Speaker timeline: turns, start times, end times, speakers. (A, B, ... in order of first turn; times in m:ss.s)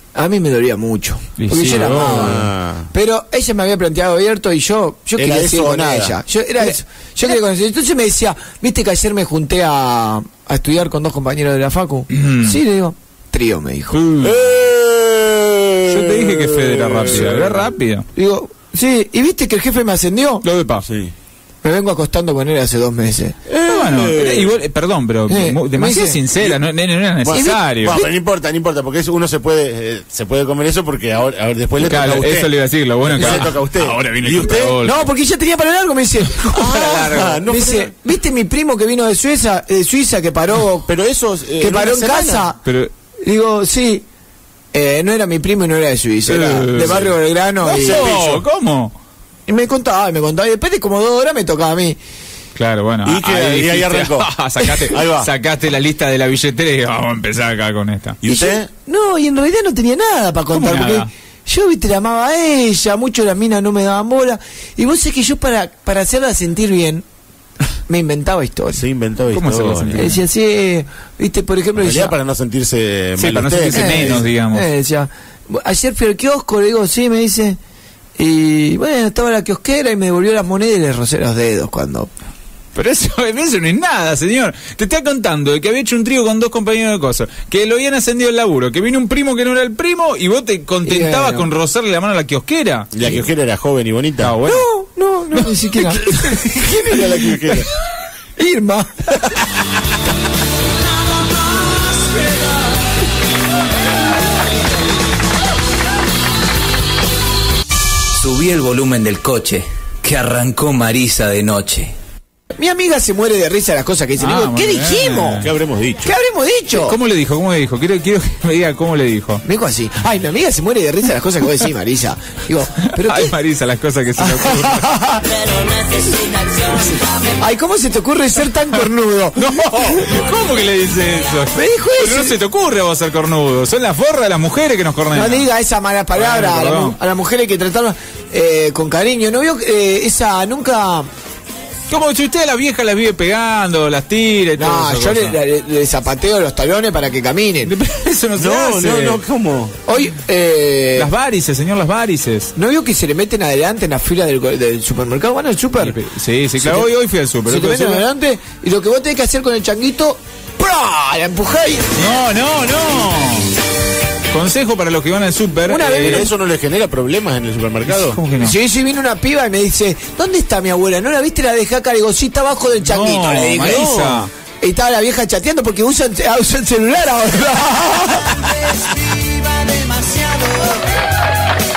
0:00.2-0:14.0 A
0:01.4-0:02.4 B
0:01.6-0:02.9 C
0:05.2-0:06.2 C
0:12.1-0:12.6 B
0:13.9-0:14.4 B
0:14.2-0:17.7 C
0:15.9-0:18.1 B
0:18.2-0:20.4 A
0:20.4-0:20.8 B
0:20.8-0:21.1 C
0:21.6-0:23.4 A
0:23.5-0:24.5 C
0:23.6-0:28.0 B
0:25.3-0:26.2 A
0:27.2-0:34.8 C
0:27.3-0:28.1 A
0:31.8-0:35.1 B
0:33.2-0:33.5 A
0:34.8-0:40.9 A
0:36.5-0:37.9 C
0:40.9-0:42.5 C
0:41.6-0:42.6 A
0:42.6-0:42.9 B
0:43.2-0:44.0 A
0:44.7-0:48.1 A
0:46.3-0:48.9 B
0:46.8-0:47.1 C
0:47.8-0:48.4 C
0:49.5-0:52.0 A
0:52.6-0:58.2 B
0:53.0-0:54.3 C
0:54.9-0:55.3 C
0:58.2-0:58.7 C
0:58.3-1:07.0 A
1:00.5-1:01.1 B
1:07.9-1:08.8 A
1:08.7-1:10.1 C
1:09.3-1:10.2 B
1:10.0-1:12.2 A
1:11.8-1:14.2 C
1:13.2-1:14.7 B
1:13.7-1:17.6 A
1:18.2-1:22.1 A
1:22.8-1:33.1 B
1:30.8-1:31.5 A
1:32.9-1:34.4 C
1:34.2-1:34.7 B
1:34.4-1:37.6 A
1:36.6-1:37.7 C
1:38.4-1:39.4 A
1:48.2-1:52.0 D
1:52.6-1:55.5 A
1:54.2-1:55.5 B
1:55.4-1:56.1 C
1:56.0-1:57.0 A
1:56.7-1:59.4 B
1:59.4-2:03.4 A
2:02.9-2:04.9 B
2:04.2-2:05.4 A
2:07.4-2:10.0 A
2:09.4-2:15.5 B
2:11.5-2:12.4 A
2:15.1-2:21.1 A
2:16.1-2:17.0 B
2:21.9-2:25.4 B
2:24.6-2:27.7 A
2:27.6-2:29.2 B
2:28.4-2:29.8 C
2:29.9-2:31.1 A
2:31.0-2:32.5 B
2:32.6-2:36.0 A
2:35.8-2:38.0 B
2:36.6-2:36.9 A
2:37.4-2:41.9 A
2:42.0-2:43.5 B
2:44.3-2:46.3 B
2:45.7-2:46.3 A
2:45.9-2:48.2 C
2:47.9-2:48.6 B
2:48.4-2:54.0 A
2:52.8-2:54.3 B
2:53.6-2:54.3 C
2:54.6-2:58.7 A